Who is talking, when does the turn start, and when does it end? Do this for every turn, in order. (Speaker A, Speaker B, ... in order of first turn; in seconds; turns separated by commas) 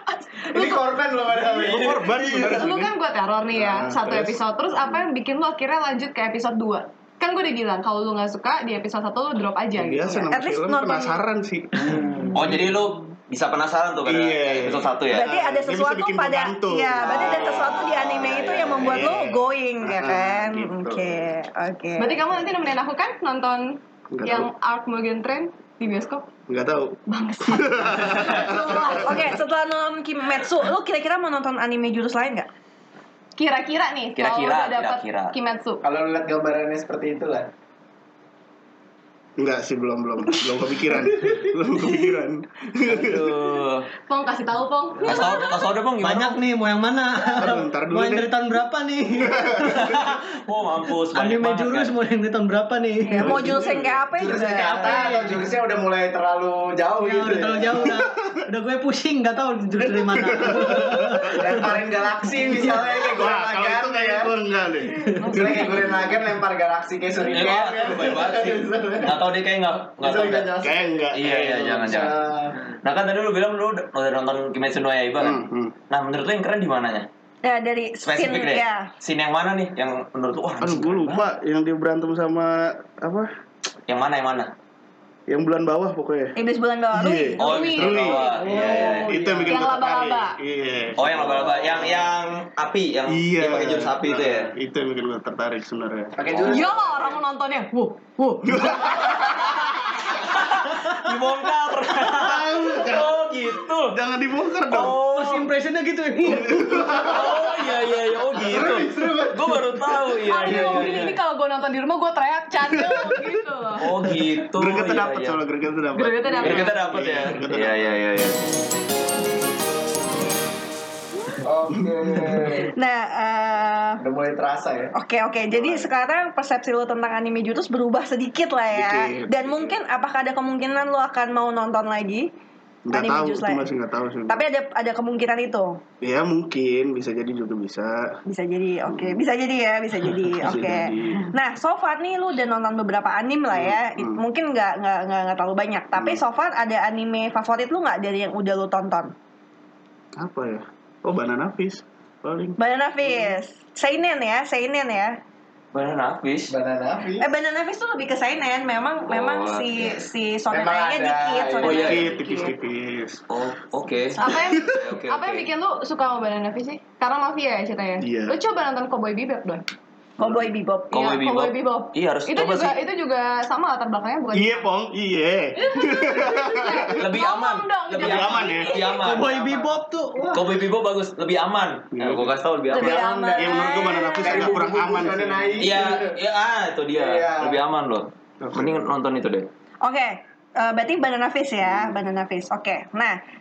Speaker A: 0.5-2.7, Speaker B: 1.6-2.3, Speaker C: 1.6-2.9, Speaker D: 2.5-10.3, Speaker C: 3.5-4.4, Speaker C: 9.7-12.0, Speaker E: 10.3-11.2, Speaker A: 11.8-12.5, Speaker B: 12.3-15.3, Speaker C: 14.1-21.3, Speaker E: 15.1-22.2, Speaker B: 17.0-19.1, Speaker D: 22.0-26.3, Speaker C: 24.1-24.5, Speaker C: 26.5-29.3, Speaker D: 27.1-29.1, Speaker B: 28.1-28.4, Speaker E: 28.5-32.5, Speaker D: 33.4-35.8, Speaker B: 34.1-35.3, Speaker A: 35.8-37.5, Speaker C: 39.4-43.4, Speaker B: 42.8-43.9, Speaker D: 44.1-45.7, Speaker B: 45.0-46.4, Speaker F: 46.0-50.1, Speaker C: 47.3-48.3, Speaker C: 49.2-49.9, Speaker B: 49.6-51.9, Speaker F: 51.1-53.6, Speaker E: 53.0-55.1, Speaker C: 53.2-54.0, Speaker A: 54.2-58.0, Speaker F: 54.9-55.4, Speaker F: 57.0-61.7, Speaker C: 57.8-58.4, Speaker C: 59.9-61.6, Speaker A: 61.3-64.3, Speaker C: 62.9-66.2, Speaker A: 65.2-69.2, Speaker B: 67.2-70.5, Speaker A: 70.0-72.6, Speaker C: 70.6-71.9, Speaker B: 71.1-72.1, Speaker B: 72.8-77.1, Speaker C: 75.2-75.7, Speaker E: 77.4-78.9, Speaker B: 78.0-81.2, Speaker C: 80.6-83.3, Speaker B: 83.9-84.5, Speaker C: 85.3-86.3, Speaker E: 86.3-87.4, Speaker C: 86.9-92.0, Speaker D: 87.4-88.5, Speaker B: 87.4-89.2, Speaker F: 88.3-89.6, Speaker D: 89.5-90.4, Speaker B: 91.0-94.5, Speaker C: 93.1-96.4, Speaker A: 96.2-97.2, Speaker B: 96.2-96.7, Speaker D: 96.4-98.5, Speaker C: 98.4-100.0, Speaker B: 100.0-104.0, Speaker C: 102.0-103.2, Speaker C: 103.9-105.0, Speaker B: 104.7-105.5, Speaker F: 105.0-107.0, Speaker C: 106.2-107.5, Speaker B: 106.9-111.2, Speaker A: 108.4-109.8, Speaker D: 110.2-113.9, Speaker C: 110.6-110.9, Speaker C: 112.8-113.2, Speaker B: 113.8-115.4, Speaker C: 114.5-118.0, Speaker D: 115.9-116.8, Speaker B: 116.4-118.4, Speaker A: 121.4-122.7, Speaker E: 122.6-124.0, Speaker A: 124.0-124.9, Speaker E: 124.9-132.3, Speaker C: 125.5-125.9, Speaker C: 128.7-129.8, Speaker C: 132.9-134.4, Speaker E: 132.9-133.7, Speaker E: 134.3-135.8, Speaker C: 136.0-138.2, Speaker E: 138.2-149.1, Speaker C: 138.9-139.2, Speaker C: 140.0-141.3, Speaker C: 143.5-144.2, Speaker C: 145.9-146.2, Speaker C: 150.2-152.6, Speaker E: 152.6-155.2, Speaker B: 155.7-156.5, Speaker A: 156.5-157.2, Speaker E: 157.2-162.5, Speaker B: 159.1-160.0, Speaker A: 160.5-162.1, Speaker B: 161.6-162.1, Speaker C: 161.6-163.2, Speaker B: 163.3-165.5, Speaker D: 164.2-169.6, Speaker C: 168.0-168.4, Speaker E: 170.2-171.0, Speaker B: 170.9-172.8, Speaker D: 170.9-174.7, Speaker C: 174.3-177.0, Speaker D: 175.6-179.1, Speaker B: 176.9-179.6, Speaker C: 178.0-178.8, Speaker F: 178.9-180.6, Speaker B: 180.3-183.1, Speaker C: 181.9-185.7, Speaker E: 182.7-184.6, Speaker A: 182.8-186.2, Speaker B: 185.6-189.5, Speaker A: 186.9-187.6, Speaker C: 188.4-188.8, Speaker E: 189.8-193.2, Speaker C: 191.6-191.9